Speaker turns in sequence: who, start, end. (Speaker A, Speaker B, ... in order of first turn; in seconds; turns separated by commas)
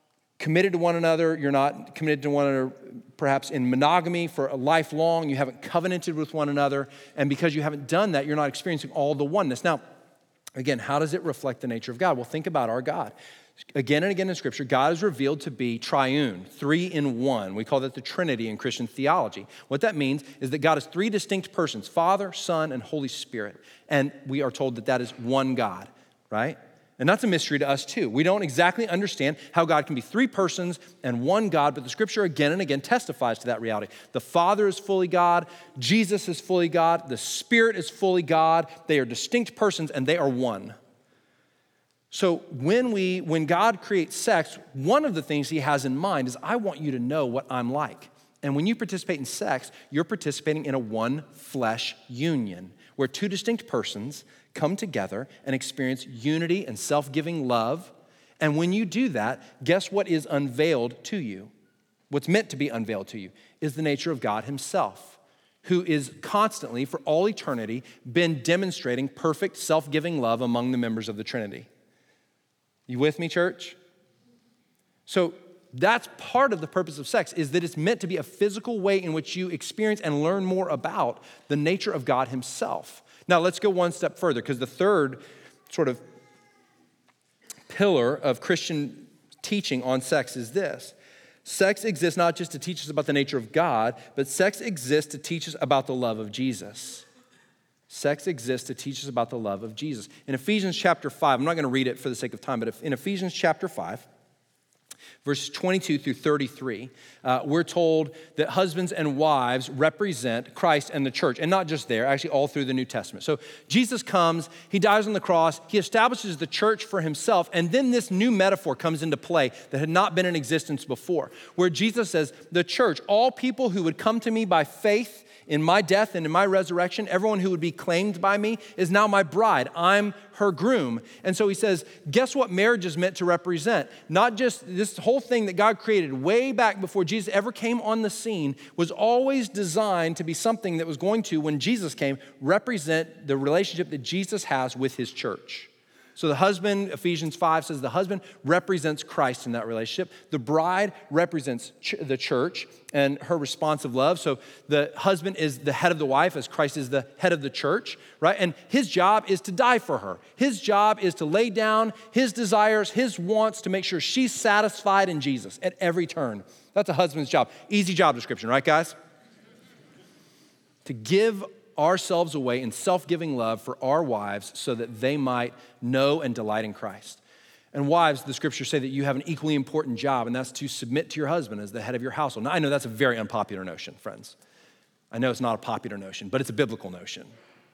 Speaker A: 0.4-9.8, Speaker A: 10.6-13.1, Speaker A: 13.7-40.7, Speaker A: 42.1-61.5, Speaker A: 62.1-71.7, Speaker A: 72.9-73.8, Speaker A: 75.1-86.0, Speaker A: 87.7-97.0, Speaker A: 97.9-104.0, Speaker A: 105.2-168.9, Speaker A: 170.8-177.2, Speaker A: 177.7-184.3, Speaker A: 185.1-187.3